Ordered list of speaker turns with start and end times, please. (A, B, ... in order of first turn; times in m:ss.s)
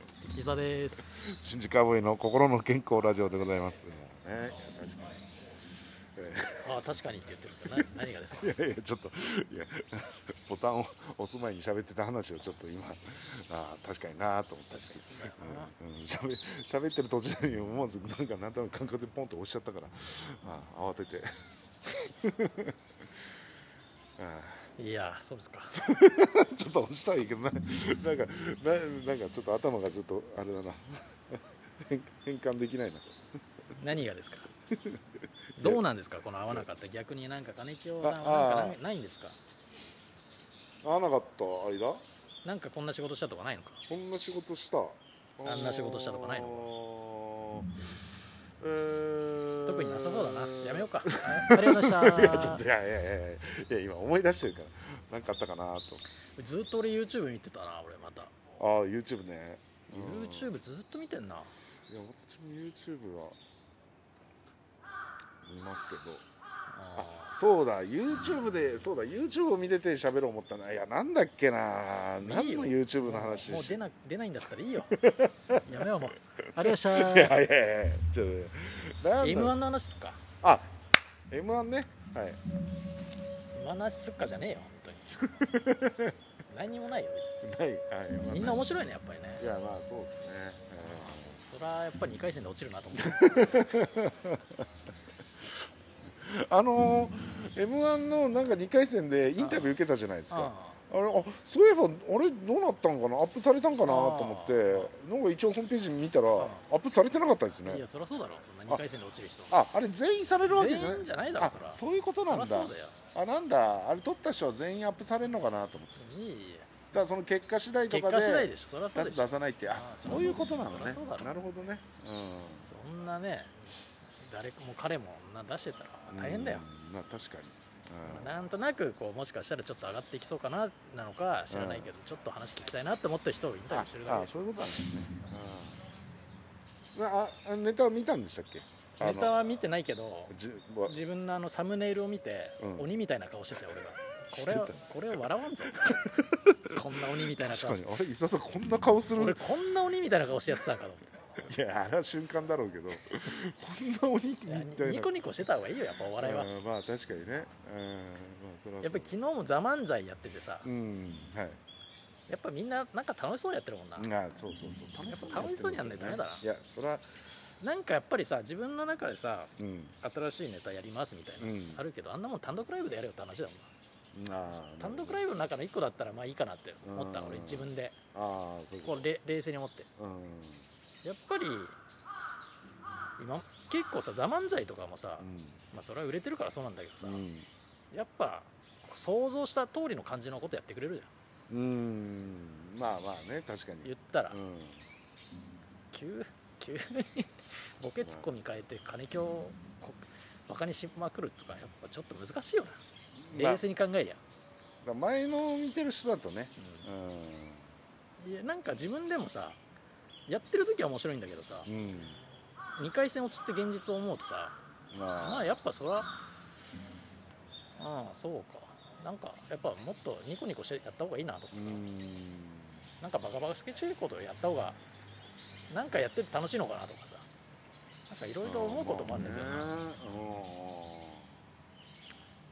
0:00.2-0:01.4 A
0:01.0-0:05.3 B
0:06.2-0:07.0 B
0:06.6-0:08.5 A
0:07.7-0:21.3 B
0:14.7-0:15.7 A
0:21.9-0:23.2 B
0:24.2-0:24.8 B
0:24.8-0:25.8 A
0:25.7-0:33.2 B
0:33.7-0:34.5 A
0:34.7-0:35.8 B
0:35.6-0:39.4 A
0:38.0-0:38.8 B
0:40.8-0:42.0 B
0:42.4-0:43.8 A
0:43.9-0:56.0 B
0:45.4-0:46.7 A
0:49.7-0:52.6 A
0:56.4-0:58.3 A
0:58.6-1:00.5 B
0:59.9-1:01.5 A
1:01.9-1:03.4 B
1:05.4-1:06.2 B
1:06.7-1:07.4 A
1:07.0-1:13.8 B
1:12.2-1:15.0 A
1:14.9-1:19.6 B
1:15.6-1:17.4 A
1:19.2-1:20.2 A
1:20.4-1:20.7 B
1:21.3-1:22.4 B
1:23.5-1:25.2 A
1:25.1-1:26.2 B
1:26.5-1:27.4 A
1:27.4-1:28.7 B
1:28.3-1:29.4 A
1:29.4-1:31.4 B
1:30.8-1:33.7 A
1:33.0-1:34.6 B
1:36.2-1:47.8 B
1:39.4-1:39.8 A
1:40.3-1:40.8 A
1:43.8-1:44.9 A
1:46.4-1:46.6 A
1:47.6-1:49.6 A
1:49.5-1:56.0 B
1:50.5-1:53.0 A
1:56.0-1:56.7 A
1:56.9-2:02.7 B
1:57.9-2:01.4 A
2:02.7-2:06.7 A
2:06.1-2:08.4 B
2:08.0-2:14.5 A
2:11.5-2:11.9 B
2:13.7-2:15.8 B
2:17.0-2:19.4 B
2:19.0-2:20.3 A
2:20.3-2:21.0 B
2:20.8-2:26.1 A
2:22.6-2:22.9 B
2:24.2-2:29.4 B
2:26.7-2:27.9 A
2:29.2-2:31.1 A
2:31.4-2:35.3 B
2:34.5-2:36.5 A
2:36.2-2:39.1 B
2:38.8-2:40.7 A
2:40.6-2:41.6 B
2:42.3-2:44.1 A
2:44.0-2:47.1 B
2:45.0-2:46.4 A
2:47.6-2:53.7 A
2:49.6-2:50.0 B
2:51.4-2:51.8 B
2:54.1-2:55.2 B
2:54.5-2:58.0 A
2:56.8-2:59.1 B
2:58.8-2:59.9 A
3:00.0-3:00.7 B
3:01.0-3:01.8 A
3:03.2-3:07.2 A
3:05.2-3:05.6 B
3:07.0-3:07.5 B
3:07.9-3:11.1 A
3:11.5-3:14.9 B
3:13.8-3:14.4 A
3:15.9-3:22.8 A
3:18.0-3:18.3 B
3:23.2-3:23.6 B
3:23.3-3:24.2 A
3:24.8-3:27.7 B
3:26.6-3:26.9 A
3:28.2-3:29.6 A
3:30.3-3:31.7 A
3:31.7-3:32.2 B
3:32.8-3:34.6 A
3:34.9-3:35.6 B
3:35.2-3:36.1 A
3:37.8-3:41.8 A
3:41.5-3:42.8 B
3:43.0-3:44.8 A
3:45.7-3:47.3 A
3:48.1-3:49.8 A
3:48.4-3:51.3 B